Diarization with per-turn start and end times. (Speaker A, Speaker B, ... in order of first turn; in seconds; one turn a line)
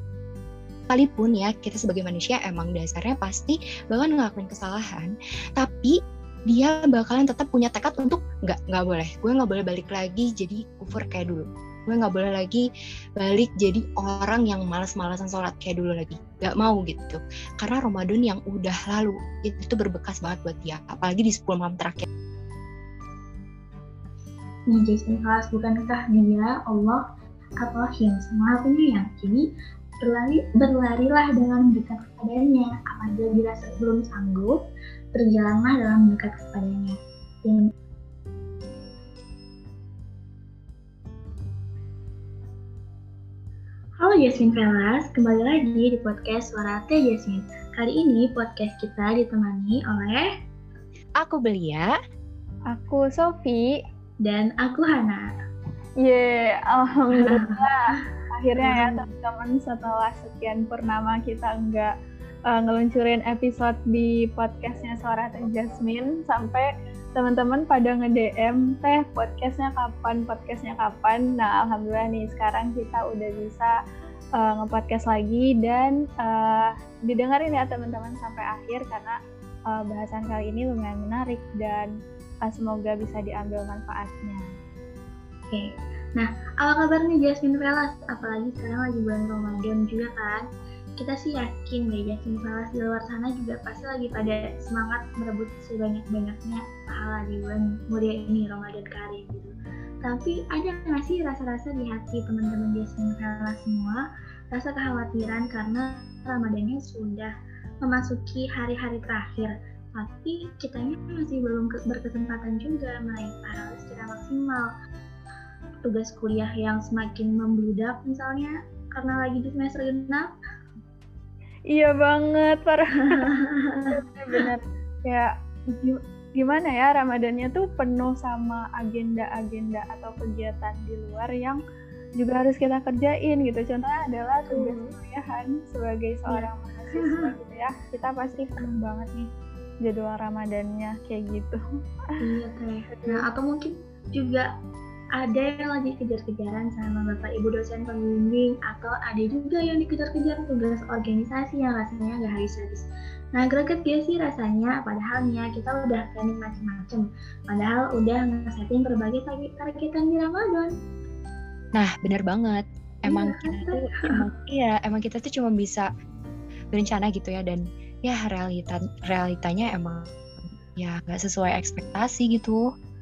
Speaker A: 0.9-12.7
Speaker A: 13.2-22.1
Speaker B: 24.7-27.0
Speaker B: 27.6-29.5
Speaker B: 30.0-34.6
Speaker B: 35.1-37.7
Speaker B: 44.0-50.3
Speaker A: 51.2-51.9
Speaker C: 52.7-53.8
Speaker B: 54.2-55.3
Speaker C: 56.0-61.9
Speaker B: 57.1-59.1
Speaker C: 62.5-73.7
Speaker C: 74.4-79.2
Speaker C: 79.7-84.5
Speaker B: 85.5-114.7
Speaker B: 115.8-120.3
Speaker C: 121.7-123.3
Speaker B: 123.0-124.5
Speaker C: 123.9-131.6
Speaker C: 132.2-139.3
Speaker B: 134.5-135.0
Speaker B: 136.3-137.3
Speaker C: 139.8-142.2
Speaker B: 142.2-144.5
Speaker C: 142.9-143.2
Speaker B: 145.1-160.7
Speaker A: 161.8-165.9
Speaker B: 163.1-164.2
Speaker A: 166.7-170.2
Speaker A: 170.7-172.7